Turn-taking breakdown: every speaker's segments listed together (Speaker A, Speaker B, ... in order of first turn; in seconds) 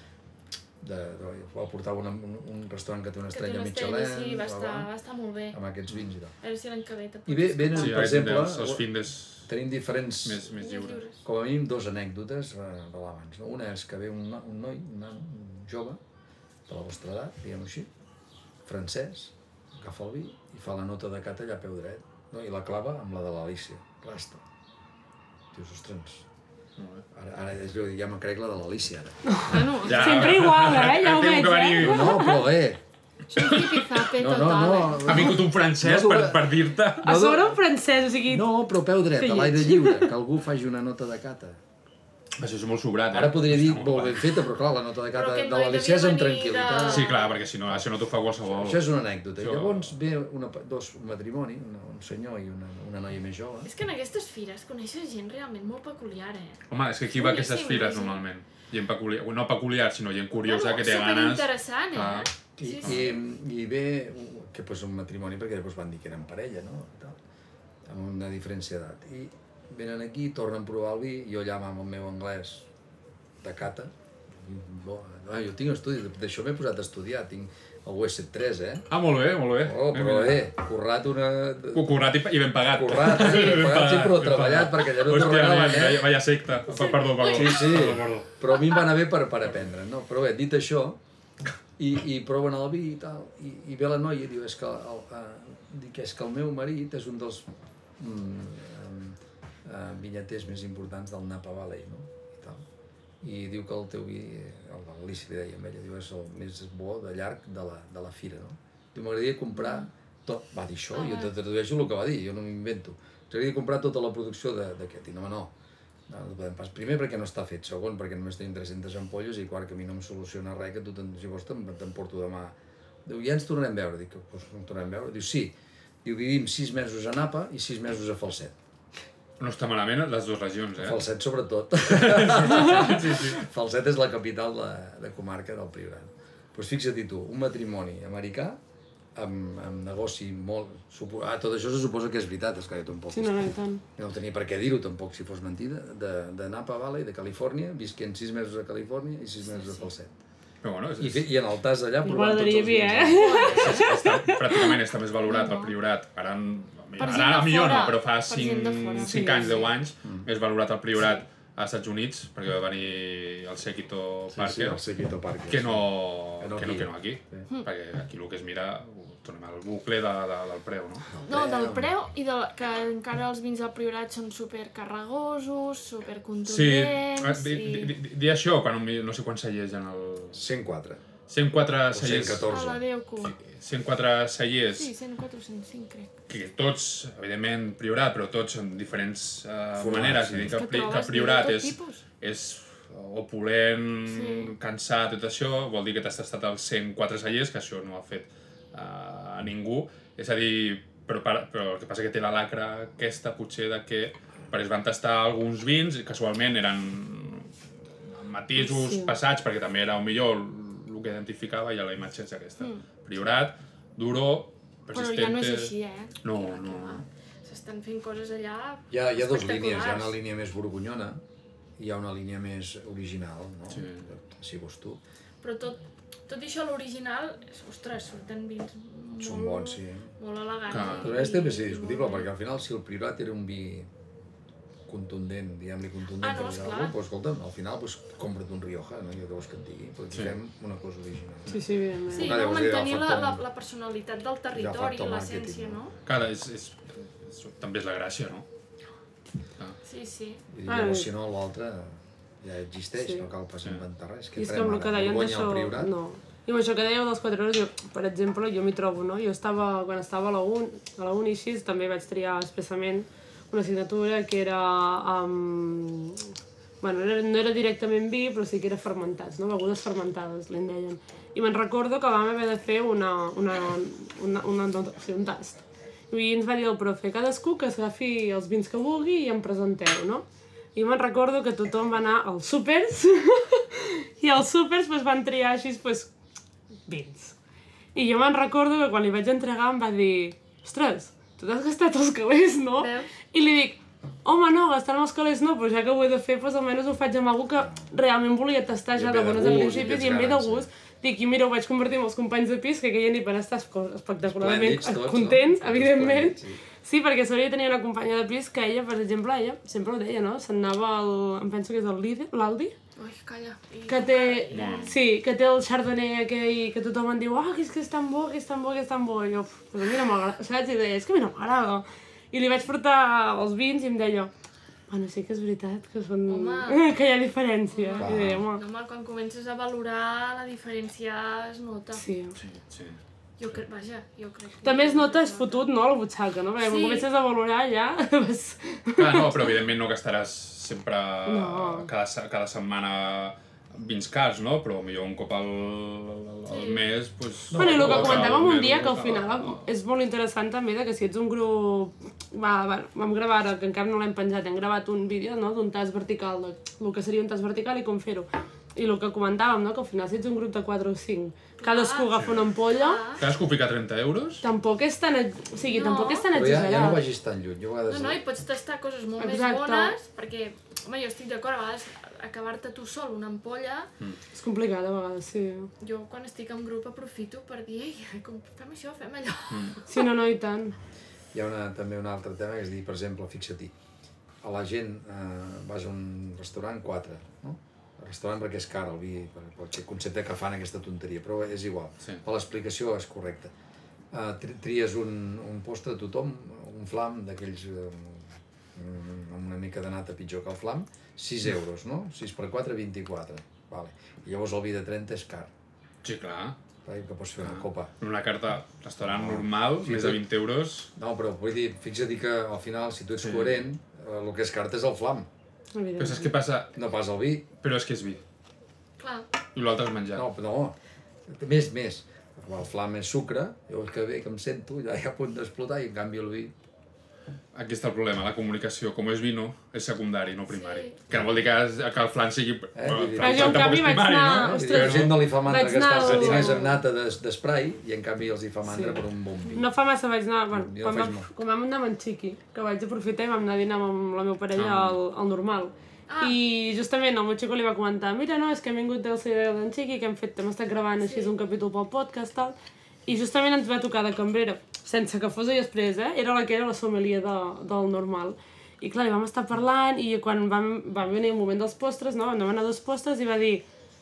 Speaker A: 0.8-4.9, 5.5-6.3, 7.3-8.9, 9.5-10.5, 11.2-16.0, 16.7-17.9, 18.7-24.4, 25.5-26.2, 27.1-30.1, 31.8-32.8, 33.5-37.6, 38.3-41.6, 43.1-47.1, 48.5-53.7, 62.6-67.2, 67.9-72.7, 73.4-78.9, 79.6-82.0, 82.7-86.1, 87.2-91.0, 91.8-102.6, 103.2-115.5, 116.1-128.6, 130.8-138.6, 139.2-143.4, 144.0-150.1, 151.0-153.4, 164.3-167.5, 171.1-171.9, 180.3-181.0, 181.9-182.8, 189.8-190.6, 218.9-221.2, 221.8-225.0, 229.2-230.1, 231.0-233.9, 234.9-243.4, 244.5-245.8, 250.5-255.9, 298.9-300.7, 304.2-306.6, 328.0-328.4, 347.5-348.6, 366.3-368.2, 381.3-383.7, 384.4-393.5, 394.1-405.5, 406.8-407.9, 409.0-410.3, 411.0-415.3, 416.7-417.5, 420.1-426.5, 432.7-439.7, 440.5-441.3
Speaker B: 3.3-5.6, 6.4-8.3, 10.6-11.2, 29.5-30.4, 33.3-35.4, 45.1-47.4, 53.6-56.6, 57.1-58.2, 60.4-63.2, 86.7-87.9, 109.6-109.9, 110.9-111.3, 149.4-149.9, 153.1-153.9, 155.3-155.7, 157.0-159.7, 161.0-161.2, 171.3-177.9, 182.5-183.3, 184.7-186.1, 190.5-192.0, 194.1-194.5, 214.9-220.2, 225.4-232.3, 236.2-236.9, 242.1-245.9, 249.8-250.4, 292.8-293.1, 313.0-315.0, 326.3-326.9, 327.7-332.0, 333.4-335.7, 336.6-337.1, 346.5-346.9, 361.6-363.3, 365.6-366.3, 367.9-373.9, 375.8-380.1, 419.0-419.3, 430.5-431.0, 436.2-436.5, 446.1-446.4, 451.0-451.3
Speaker C: 7.8-9.5, 10.2-11.0, 26.8-27.0, 29.8-32.3, 33.4-33.8, 35.0-37.1, 42.4-44.4, 46.8-49.9, 56.7-62.3, 62.8-63.1, 78.9-80.5, 81.7-88.3, 129.4-131.0, 131.9-133.4, 150.6-151.3, 153.5-164.8, 165.5-171.1, 176.4-180.4, 181.3-182.5, 183.2-184.9, 186.3-207.5, 208.1-217.0, 223.7-224.1, 230.7-231.2, 246.1-248.5, 314.5-314.9, 332.4-333.0, 339.0-349.7, 363.2-364.4, 379.5-379.8, 406.0-406.6, 407.4-410.9, 413.2-413.6, 416.0-416.7, 417.6-418.2, 419.5-420.2, 427.5-435.3, 444.6-445.0
Speaker D: 29.3-32.5, 37.0-38.5, 39.2-40.1, 143.1-143.8, 152.0-154.8, 208.6-209.2, 241.5-242.4, 250.7-251.1, 253.0-253.3, 254.4-286.1, 286.9-287.4, 287.9-312.8, 313.9-324.3, 324.9-328.6, 331.9-332.4, 334.6-339.5, 341.3-341.9, 347.5-363.0, 364.4-367.1, 369.2-370.0, 374.3-375.7, 379.9-380.8, 415.8-416.3, 433.2-436.8, 438.6-439.0, 439.5-463.6